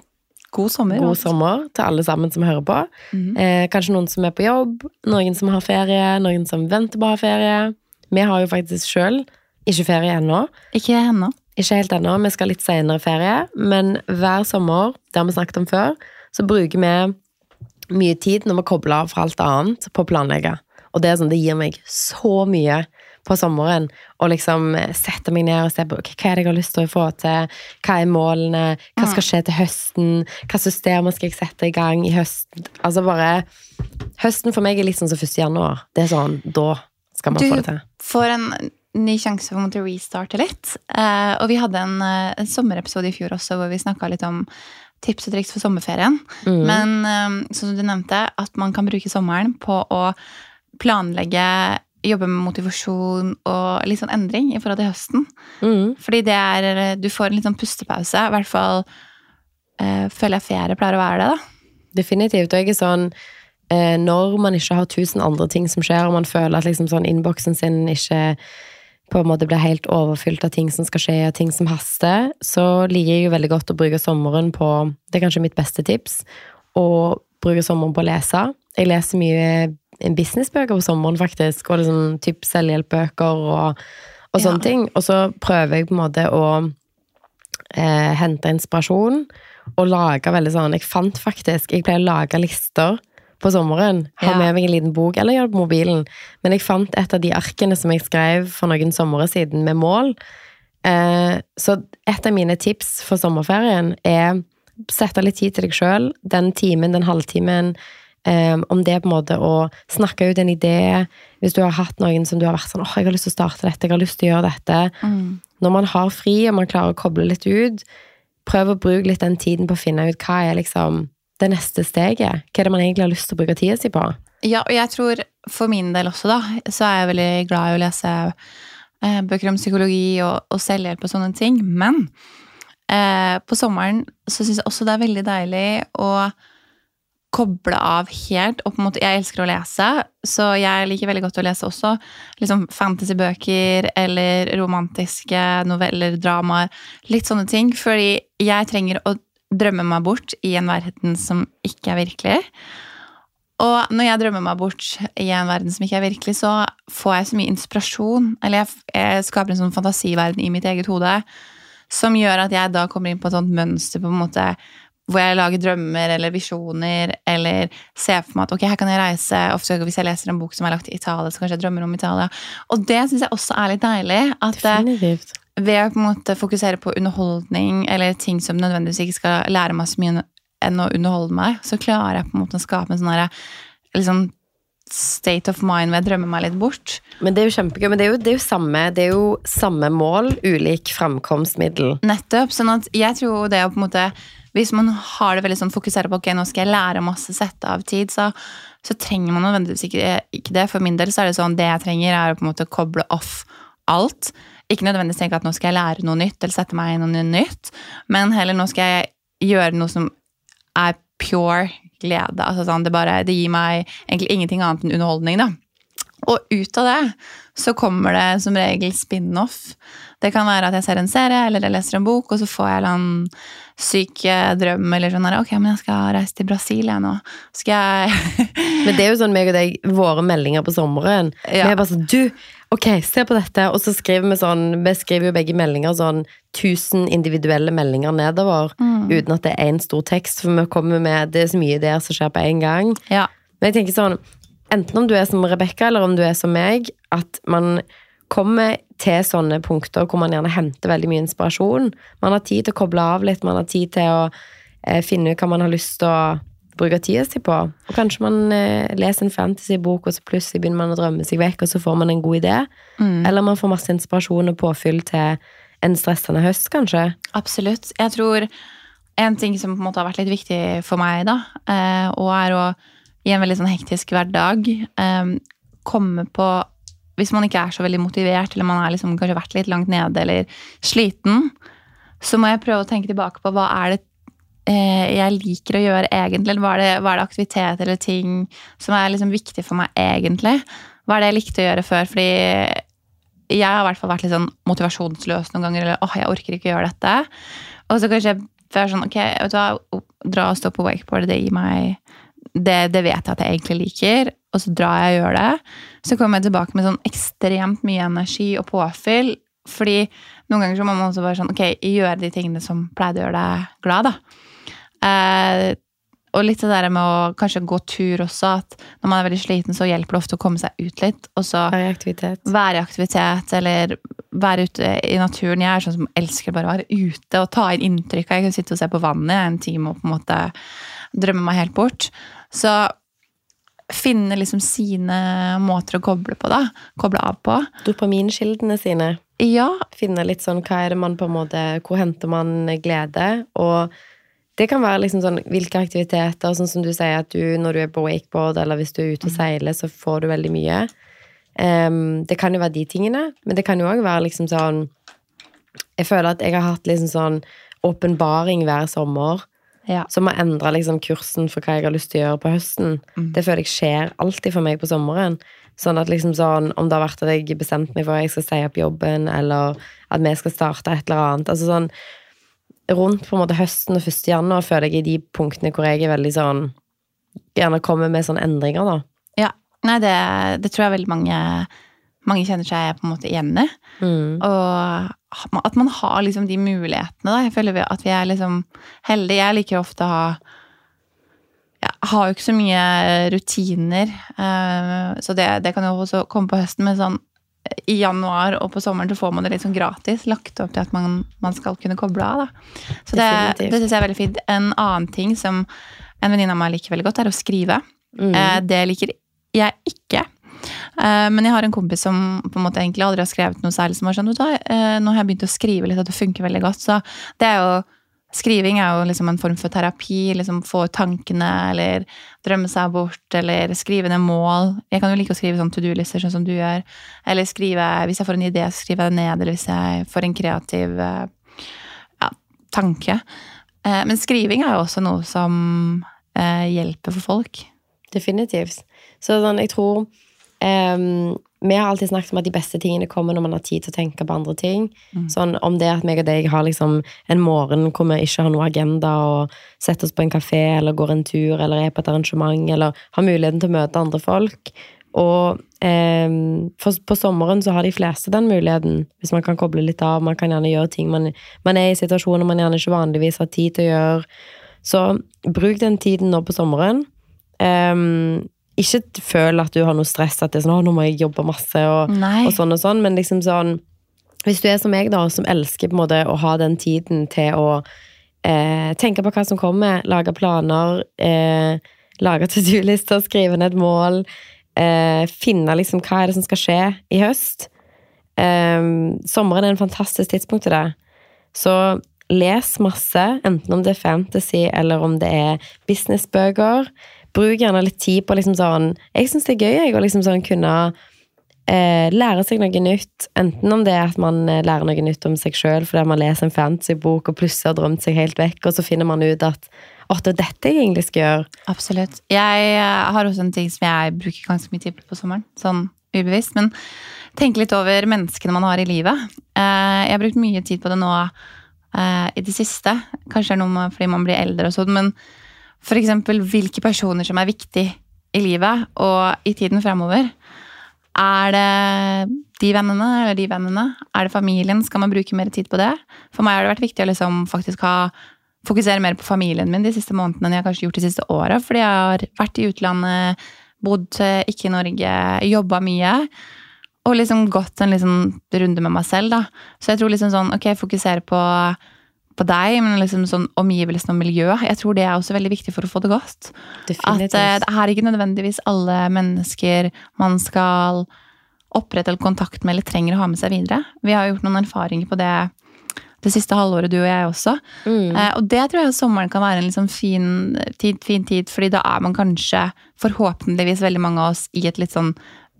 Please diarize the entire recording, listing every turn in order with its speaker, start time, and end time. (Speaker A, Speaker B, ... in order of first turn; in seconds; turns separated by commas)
Speaker A: 0.5-1.3, Speaker B: 0.9-10.5, Speaker A: 3.1-3.4, Speaker A: 10.7-11.3, Speaker B: 11.6-17.1, Speaker B: 17.9-33.5, Speaker A: 29.0-29.2, Speaker B: 34.2-37.8, Speaker A: 37.3-44.5, Speaker A: 45.0-50.2, Speaker B: 46.5-46.9, Speaker A: 50.8-55.3, Speaker B: 55.6-56.0, Speaker A: 56.0-58.9, Speaker A: 59.8-61.4, Speaker B: 61.9-63.1, Speaker B: 63.7-68.4, Speaker B: 69.1-83.8, Speaker B: 84.3-86.8, Speaker A: 84.4-84.7, Speaker B: 87.7-100.2, Speaker A: 94.2-94.5, Speaker B: 100.8-115.0, Speaker A: 115.0-115.4, Speaker B: 115.6-117.8, Speaker B: 118.5-124.2, Speaker A: 124.4-128.3, Speaker A: 129.0-132.1, Speaker A: 132.9-136.3, Speaker A: 137.3-152.4, Speaker A: 153.6-161.2, Speaker A: 161.9-164.6, Speaker A: 165.1-174.9, Speaker B: 174.6-175.3, Speaker A: 175.6-183.3, Speaker A: 183.9-184.3, Speaker A: 184.9-187.0, Speaker B: 187.2-192.0, Speaker A: 192.0-210.1, Speaker A: 210.8-215.6, Speaker A: 216.2-228.9, Speaker B: 228.8-243.0, Speaker A: 231.4-231.8, Speaker A: 238.8-239.2, Speaker B: 243.6-244.2, Speaker B: 244.7-254.3, Speaker B: 254.9-262.7, Speaker A: 263.0-263.3, Speaker B: 263.2-267.2, Speaker A: 267.3-268.5, Speaker A: 269.2-276.7, Speaker A: 277.2-281.5, Speaker A: 282.2-284.0, Speaker A: 284.7-292.8, Speaker A: 293.5-297.3, Speaker A: 297.9-302.0, Speaker A: 302.6-314.2, Speaker A: 315.0-315.8, Speaker A: 316.3-321.8, Speaker B: 321.7-322.5, Speaker A: 322.4-330.5, Speaker A: 331.1-332.9, Speaker A: 333.9-337.7, Speaker B: 337.8-339.2, Speaker A: 339.4-339.9, Speaker B: 339.9-343.9, Speaker B: 344.6-350.9, Speaker B: 351.6-354.9, Speaker B: 356.0-359.4, Speaker B: 360.1-371.9, Speaker B: 372.9-376.7, Speaker B: 377.6-379.0, Speaker A: 379.4-381.7, Speaker A: 382.2-383.7, Speaker B: 384.0-384.4, Speaker A: 384.4-390.4, Speaker A: 391.8-402.5, Speaker A: 403.1-405.7, Speaker B: 403.1-403.8, Speaker A: 406.2-407.8, Speaker B: 408.2-408.6, Speaker A: 408.3-431.3, Speaker A: 432.2-433.2, Speaker A: 433.9-437.7, Speaker B: 438.1-440.1, Speaker B: 440.6-464.3, Speaker B: 464.8-467.1, Speaker B: 467.6-473.8, Speaker A: 472.1-472.6, Speaker B: 474.5-477.9, Speaker B: 478.4-487.7, Speaker B: 488.4-490.9, Speaker B: 491.6-500.9, Speaker B: 501.7-511.5, Speaker A: 511.7-516.7, Speaker A: 517.4-521.3, Speaker A: 521.9-525.1, Speaker A: 525.8-530.3, Speaker A: 531.1-538.1, Speaker A: 538.6-546.3, Speaker A: 547.0-551.8, Speaker A: 552.4-561.1, Speaker B: 556.9-557.6, Speaker A: 561.7-565.5, Speaker A: 566.2-575.1, Speaker B: 567.9-568.3